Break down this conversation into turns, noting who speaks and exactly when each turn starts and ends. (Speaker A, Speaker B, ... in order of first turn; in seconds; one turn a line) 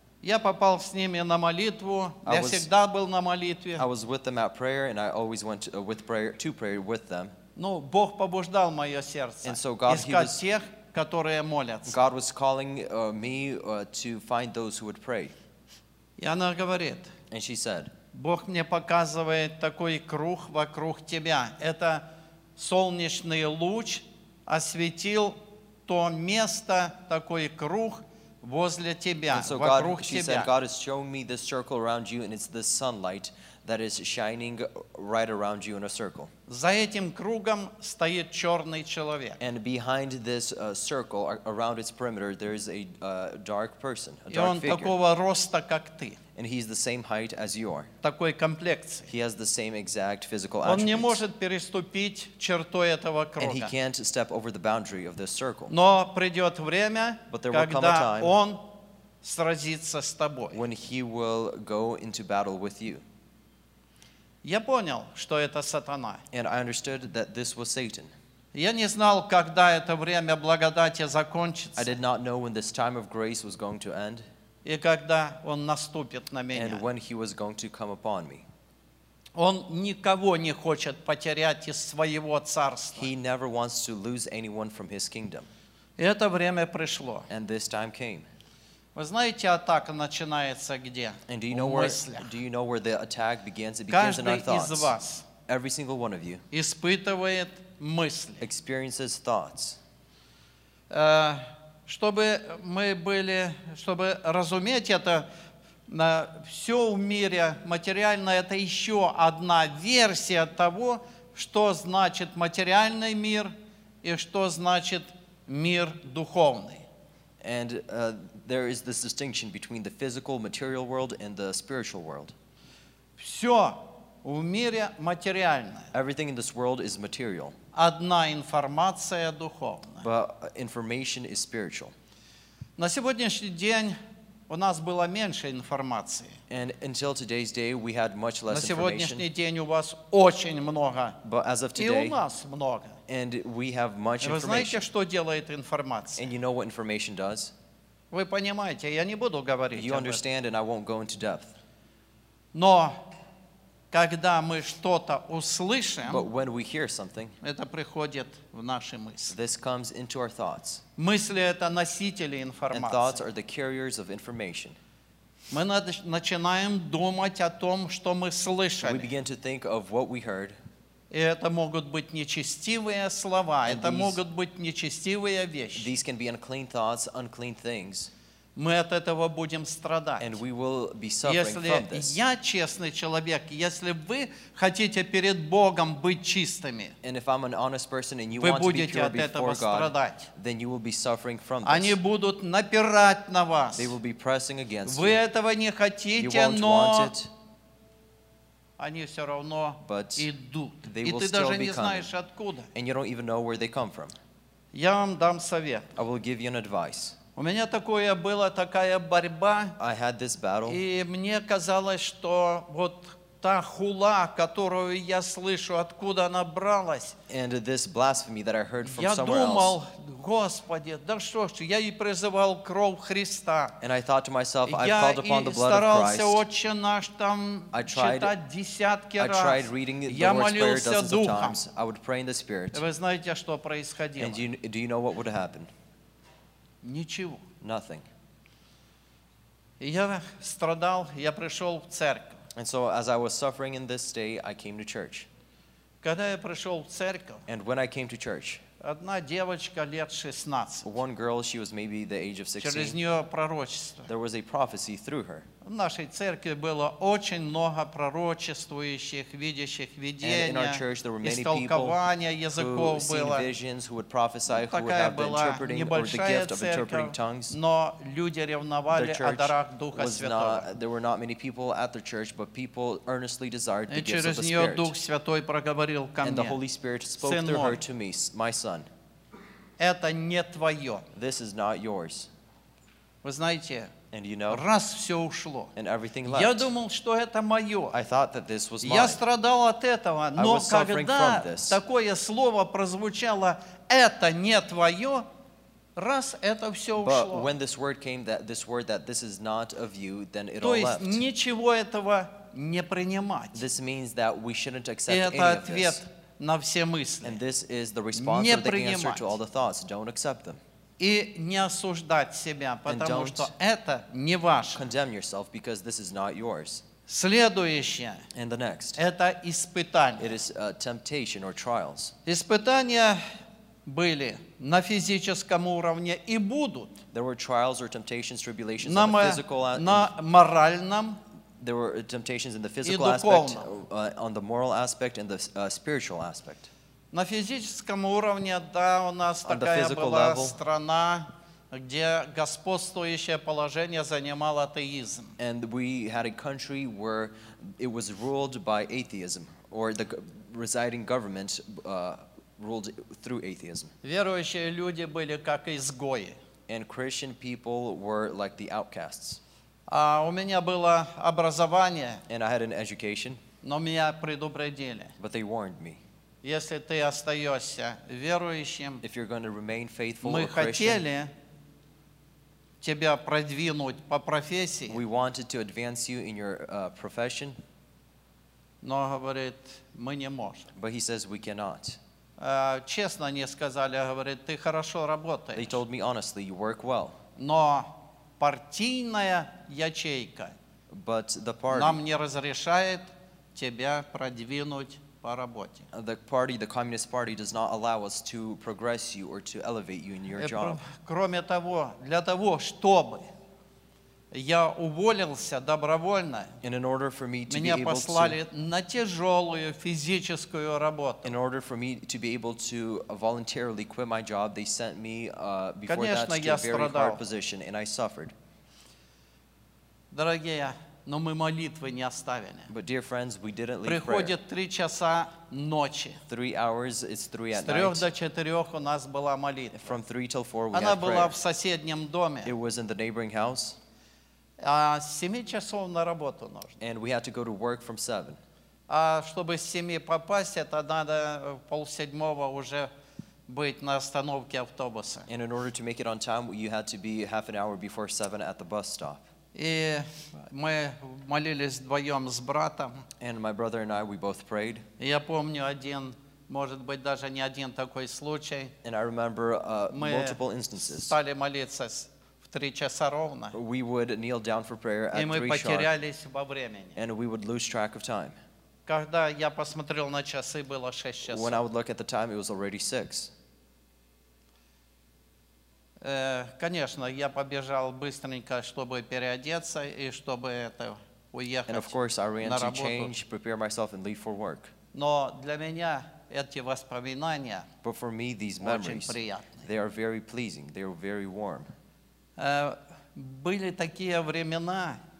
Speaker A: 0.2-3.9
Speaker B: 2.2-2.7
Speaker B: 3.8-7.3
Speaker A: 7.5-12.0
Speaker B: 9.4-10.4
Speaker B: 11.9-15.3
Speaker A: 16.2-17.1
Speaker B: 17.3-17.9
Speaker A: 18.1-22.0
Speaker A: 22.6-30.5
Speaker B: 29.3-36.3
Speaker A: 36.5-39.4
Speaker B: 39.4-44.9
Speaker A: 44.3-46.2
Speaker B: 46.3-47.9
Speaker A: 48.0-49.1
Speaker B: 49.1-51.2
Speaker A: 50.6-53.7
Speaker B: 53.4-55.7
Speaker A: 55.7-58.7
Speaker B: 57.3-58.4
Speaker A: 59.2-60.6
Speaker B: 60.5-63.0
Speaker A: 64.4-66.2
Speaker B: 66.3-68.1
Speaker A: 68.5-71.9
Speaker B: 71.8-74.2
Speaker A: 74.6-76.8
Speaker B: 76.5-78.4
Speaker A: 79.3-83.1
Speaker B: 83.0-85.5
Speaker A: 86.0-87.3
Speaker B: 87.3-88.3
Speaker A: 88.9-92.3
Speaker B: 91.3-94.9
Speaker A: 93.9-95.3
Speaker B: 95.5-96.4
Speaker A: 96.5-98.4
Speaker B: 98.4-99.8
Speaker A: 100.9-105.3
Speaker A: 105.9-116.8
Speaker B: 117.4-122.3
Speaker A: 123.2-125.9
Speaker B: 125.9-127.5
Speaker A: 127.7-130.0
Speaker B: 130.0-131.9
Speaker A: 132.8-133.9
Speaker A: 134.5-136.4
Speaker B: 136.5-139.2
Speaker A: 138.5-141.2
Speaker B: 141.2-142.2
Speaker A: 141.8-143.0
Speaker B: 143.1-144.8
Speaker A: 144.2-146.3
Speaker B: 146.2-147.5
Speaker A: 148.1-150.2
Speaker B: 149.7-151.5
Speaker A: 152.5-153.0
Speaker A: 153.9-156.3
Speaker B: 156.0-157.3
Speaker A: 157.4-159.3
Speaker B: 159.3-160.8
Speaker A: 161.0-163.2
Speaker B: 162.7-164.8
Speaker A: 165.5-169.1
Speaker B: 168.8-170.5
Speaker A: 171.1-175.9
Speaker B: 173.6-174.2
Speaker B: 175.8-178.1
Speaker A: 178.6-180.4
Speaker B: 180.2-182.2
Speaker A: 181.2-186.9
Speaker B: 187.0-192.0
Speaker A: 188.4-190.3
Speaker A: 191.6-193.9
Speaker B: 193.8-195.2
Speaker A: 194.8-197.1
Speaker B: 196.2-197.3
Speaker A: 198.8-202.7
Speaker B: 199.8-200.3
Speaker B: 200.9-202.1
Speaker B: 202.7-204.1
Speaker A: 204.7-205.9
Speaker B: 205.9-207.2
Speaker A: 207.3-209.8
Speaker B: 209.8-210.8
Speaker A: 210.7-217.2
Speaker B: 217.3-219.8
Speaker A: 218.8-223.8
Speaker B: 223.8-226.4
Speaker A: 224.7-231.6
Speaker B: 227.7-228.3
Speaker B: 229.2-232.8
Speaker A: 232.7-234.4
Speaker B: 234.2-235.7
Speaker A: 236.8-237.4
Speaker B: 237.6-238.0
Speaker A: 239.8-242.4
Speaker B: 242.5-245.3
Speaker A: 246.0-247.4
Speaker B: 247.5-248.6
Speaker A: 248.8-250.9
Speaker B: 250.8-253.0
Speaker A: 252.6-254.1
Speaker B: 254.1-255.5
Speaker A: 255.6-263.5
Speaker B: 260.2-262.0
Speaker B: 262.5-267.6
Speaker A: 264.5-270.7
Speaker B: 268.9-274.9
Speaker A: 273.9-276.6
Speaker B: 276.2-278.9
Speaker A: 277.2-277.8
Speaker A: 279.8-281.1
Speaker B: 281.1-282.3
Speaker A: 283.2-283.9
Speaker B: 284.1-284.6
Speaker A: 284.5-285.7
Speaker B: 285.8-286.7
Speaker A: 286.3-287.9
Speaker B: 287.9-289.2
Speaker A: 288.8-295.2
Speaker B: 290.4-291.8
Speaker A: 295.9-297.5
Speaker B: 297.0-301.2
Speaker A: 300.6-303.6
Speaker B: 303.5-306.0
Speaker A: 305.1-307.4
Speaker B: 307.2-310.6
Speaker A: 308.1-309.3
Speaker A: 311.0-314.8
Speaker B: 312.9-313.5
Speaker B: 314.7-316.8
Speaker A: 317.1-318.2
Speaker B: 318.3-319.0
Speaker A: 319.0-320.3
Speaker B: 320.2-322.1
Speaker A: 322.2-323.2
Speaker A: 323.9-327.0
Speaker B: 327.1-330.1
Speaker A: 328.8-331.2
Speaker B: 331.6-336.7
Speaker A: 332.8-333.7
Speaker A: 337.1-345.4
Speaker B: 339.4-340.6
Speaker B: 345.4-353.9
Speaker A: 354.0-356.4
Speaker B: 356.7-359.4
Speaker A: 359.9-362.2
Speaker B: 362.3-363.4
Speaker A: 363.6-365.1
Speaker B: 365.2-366.0
Speaker A: 366.4-369.0
Speaker B: 369.0-371.0
Speaker A: 370.2-371.3
Speaker A: 372.8-375.0
Speaker B: 374.9-377.6
Speaker A: 378.8-380.7
Speaker B: 380.7-382.0
Speaker A: 382.4-385.8
Speaker B: 385.5-387.2
Speaker A: 387.4-390.5
Speaker B: 390.9-392.0
Speaker A: 391.7-395.9
Speaker B: 395.9-400.8
Speaker A: 400.4-403.3
Speaker A: 404.3-406.5
Speaker B: 406.6-408.4
Speaker A: 407.5-411.3
Speaker B: 411.2-418.3
Speaker A: 415.9-417.2
Speaker A: 420.1-422.7
Speaker B: 422.7-424.4
Speaker A: 423.8-426.2
Speaker B: 426.3-428.1
Speaker A: 427.5-429.9
Speaker B: 429.7-431.3
Speaker A: 430.7-432.5
Speaker B: 432.4-433.8
Speaker A: 434.6-436.8
Speaker B: 436.8-438.4
Speaker A: 438.9-442.9
Speaker A: 443.5-445.3
Speaker B: 445.3-449.2
Speaker A: 449.5-453.1
Speaker B: 453.2-454.8
Speaker A: 455.0-458.7
Speaker B: 458.8-461.2
Speaker A: 459.9-463.6
Speaker B: 463.5-465.9
Speaker A: 465.1-467.0
Speaker B: 466.9-468.4
Speaker A: 468.9-471.6
Speaker B: 471.3-473.3
Speaker A: 476.0-483.1
Speaker B: 481.7-484.7
Speaker A: 484.9-487.7
Speaker B: 487.8-491.7
Speaker A: 488.6-489.6
Speaker A: 492.4-495.0